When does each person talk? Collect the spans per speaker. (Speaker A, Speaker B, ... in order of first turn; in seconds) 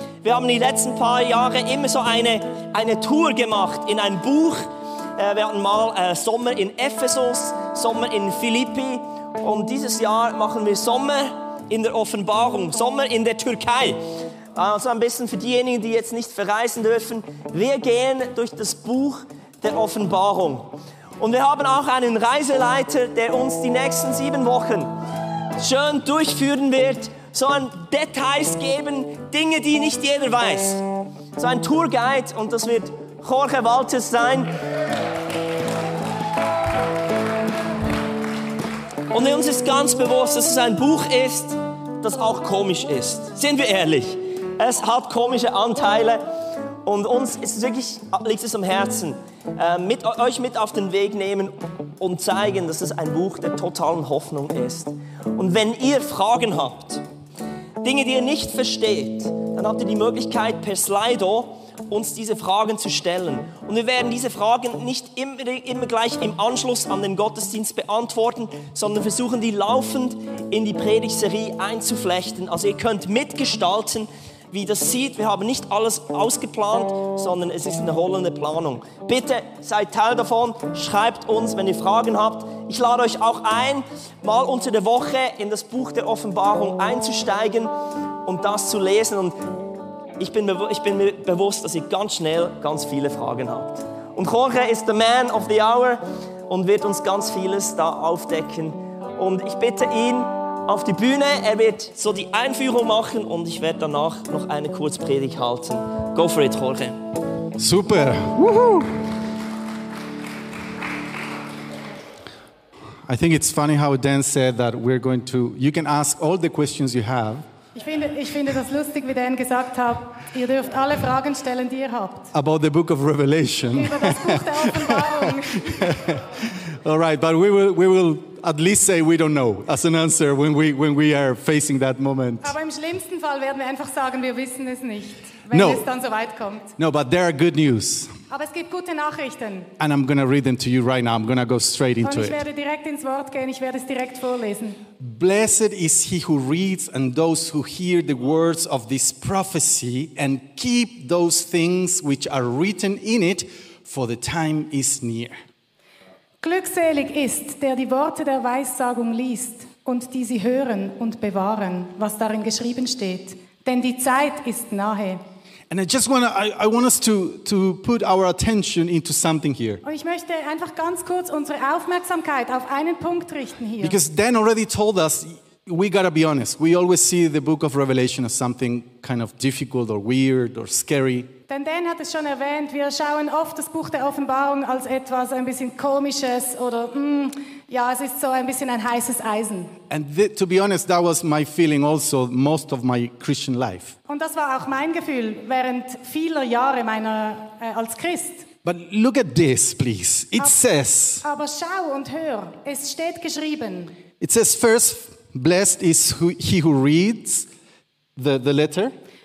Speaker A: 0.2-14.0, 14.5-24.9, 25.6-30.8, 31.4-34.5, 39.1-46.2, 46.8-57.0, 57.8-87.7, 88.2-89.3, 90.2-107.0
Speaker B: 107.6-109.0, 113.0-117.4, 122.3-132.5, 135.5-135.9, 136.8-138.1, 139.8-142.4, 145.0-155.3, 165.7-169.8, 173.8-181.3, 189.9-193.9, 198.6-201.2, 204.2-207.5, 208.2-208.9
Speaker C: 117.7-122.3, 123.7-125.8, 132.4-136.7, 138.3-139.7, 142.0-144.8, 156.4-165.2, 169.8-174.0, 181.5-189.7, 194.1-198.5, 201.2-203.9